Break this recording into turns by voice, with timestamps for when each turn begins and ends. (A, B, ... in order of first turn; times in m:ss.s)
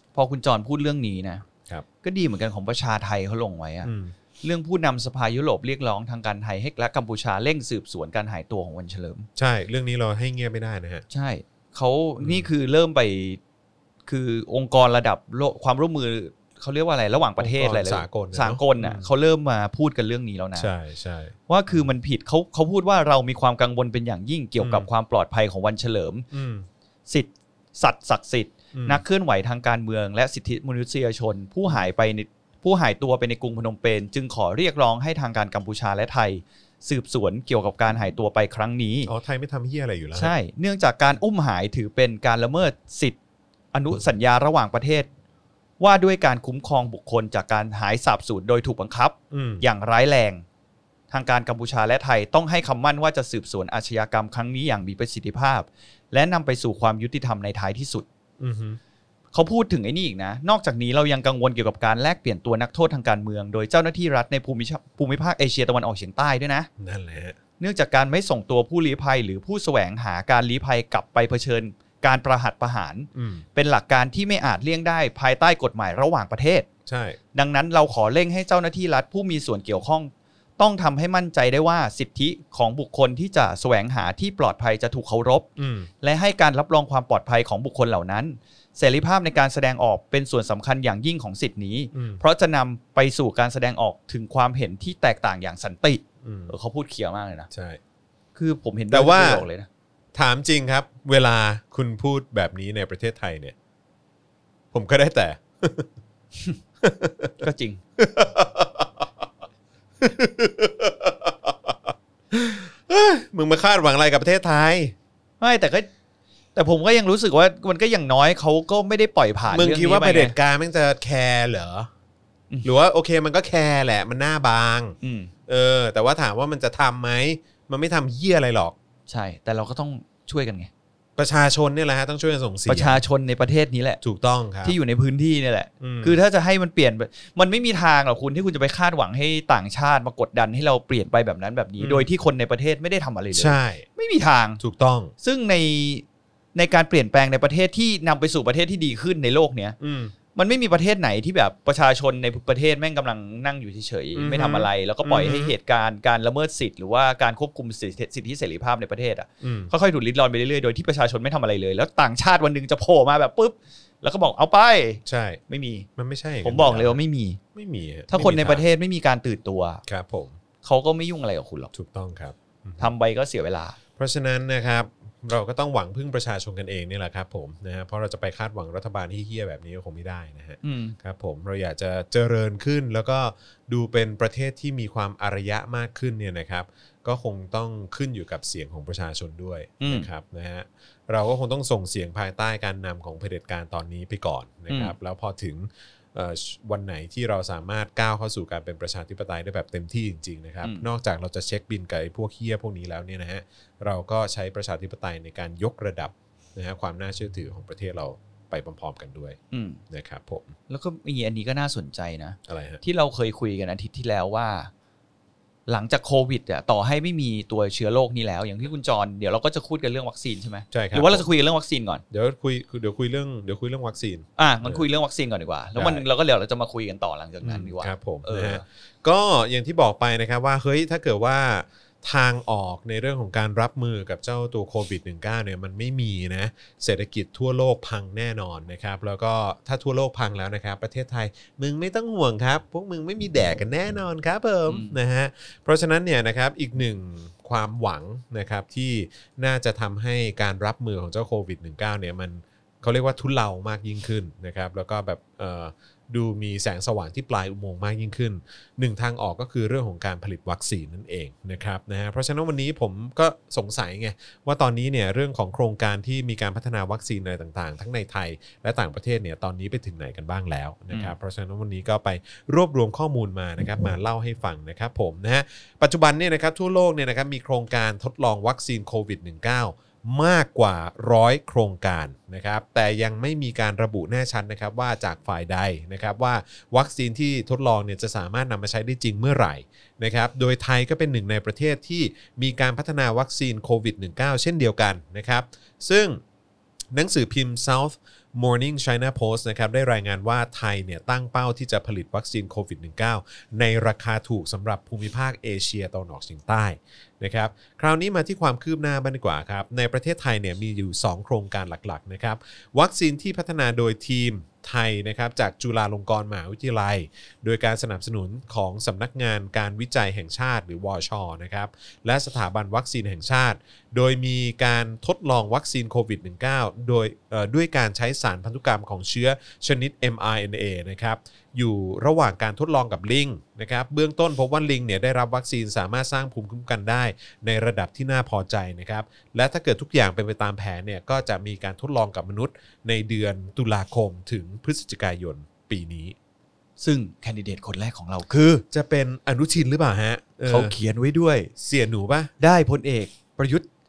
0:00.1-0:01.4 A
0:02.0-0:09.3 A
0:03.8-0:04.1 B
0:09.4-0:11.0 B
0:11.1-0:13.4 A
0:12.2-0:12.5 B
0:14.1-0:20.7 A
0:17.4-0:19.1 B
0:20.6-0:21.8 B
0:21.5-0:26.2 A
0:24.6-0:24.9 B
0:26.3-0:26.7 B
0:27.1-0:39.1 A
0:28.7-0:29.0 B
0:39.0-0:40.3 B
0:40.1-0:43.2 A
0:43.7-0:45.1 A
0:45.8-0:50.4 A
0:49.3-0:49.6 B
0:51.1-0:58.0 A
0:58.4-0:58.8 B
0:59.3-1:06.7 A
1:06.8-1:07.4 B
1:07.6-1:16.7 A
1:13.1-1:13.4 B
1:16.9-1:17.2 B
1:17.3-1:25.5 A
1:25.6-1:25.9 B
1:26.0-1:37.5 A
1:31.9-1:32.2 B
1:36.2-1:36.5 B
1:37.5-1:37.8 B
1:38.3-1:39.7 A
1:38.9-1:39.4 B
1:40.1-1:43.5 B
1:44.7-1:45.9 B
1:46.8-1:47.4 B
1:47.4-1:47.8 A
1:48.0-1:49.1 B
1:50.0-1:54.9 B
1:55.4-1:55.9 A
1:56.5-2:00.3 A
1:59.5-2:01.9 B
2:02.6-2:05.0 B
2:05.0-2:05.3 A
2:05.5-2:08.7 B
2:09.1-2:10.7 A
2:11.2-2:13.0 B
2:12.7-2:14.0 A
2:14.0-2:14.8 B
2:14.6-2:24.6 A
2:15.8-2:16.2 B
2:21.8-2:22.1 B
2:23.3-2:23.9 B
2:24.6-2:25.1 B
2:25.2-2:29.8 A
2:29.8-2:30.1 B
2:30.3-2:45.9 A
2:34.1-2:35.5 B
2:39.4-2:39.7 B
2:45.0-2:45.4 B
2:46.0-2:47.0 B
2:46.4-2:47.4 A
2:47.5-2:48.6 B
2:48.1-2:49.8 A
2:49.9-2:50.4 B
2:50.6-2:51.7 A
2:51.7-2:52.9 B
2:52.8-2:53.8 A
2:54.0-3:29.4 B
3:00.6-3:01.0 A
3:09.8-3:10.1 A
3:14.7-3:14.9 A
3:29.5-3:29.8 A
3:29.9-3:30.5 B
3:30.7-3:34.7 A
3:32.5-3:32.8 B
3:35.7-3:42.0 A
3:40.7-3:41.3 B
3:42.1-3:44.8 B
3:44.4-3:48.6 A
3:45.8-3:46.0 B
3:47.4-4:56.2 B
4:04.7-4:05.0 A
4:56.9-5:46.2 B
5:46.8-5:48.6 A
5:48.7-5:50.7 B
5:50.4-5:51.5 A
5:51.6-5:52.3 B
5:52.4-5:53.7 A